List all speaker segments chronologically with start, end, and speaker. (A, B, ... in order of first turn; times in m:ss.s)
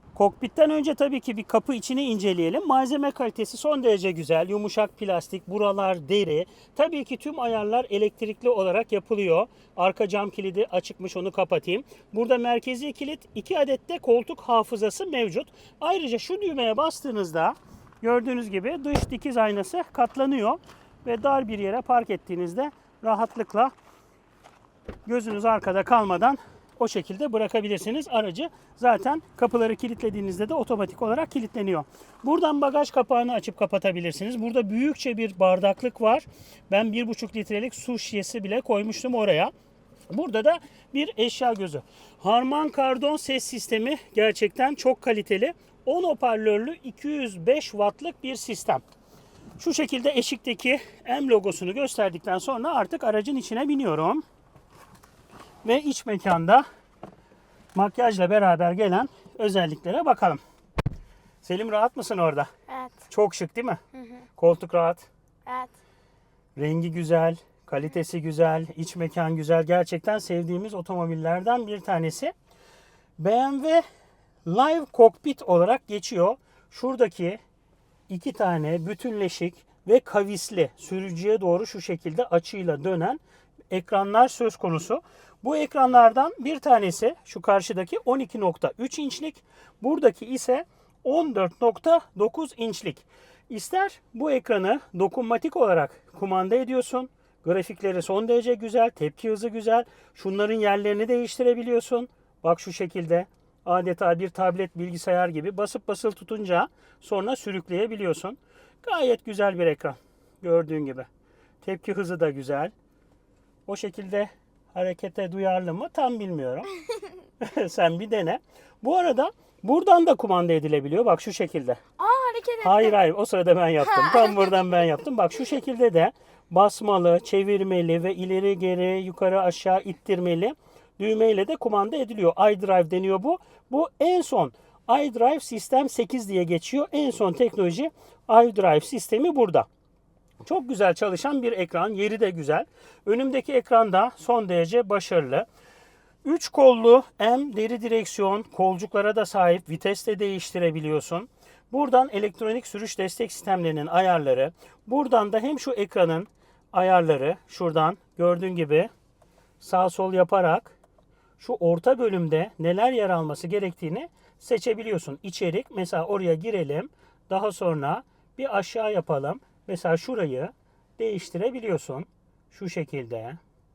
0:00.1-0:23.7 A
0:25.0-0:39.5 A
0:40.1-0:48.8 A
0:49.6-0:54.2 A
0:55.6-0:56.6 A
0:57.7-1:00.4 A
1:01.4-1:02.5 A
1:02.7-1:03.0 B
1:03.1-1:03.8 A
1:03.9-1:04.2 B
1:04.4-1:05.1 A
1:05.4-1:05.7 B
1:06.6-1:12.3 A
1:13.2-1:13.8 A
1:14.4-1:17.4 A
1:18.1-1:51.1 A
1:51.6-1:52.7 A
1:53.7-1:56.7 A
1:57.4-2:01.8 A
2:02.0-2:03.0 B
2:02.6-2:19.7 A
2:03.8-2:04.6 B
2:20.4-2:25.5 A
2:26.2-2:38.9 A
2:39.6-2:40.8 A
2:41.4-2:53.4 A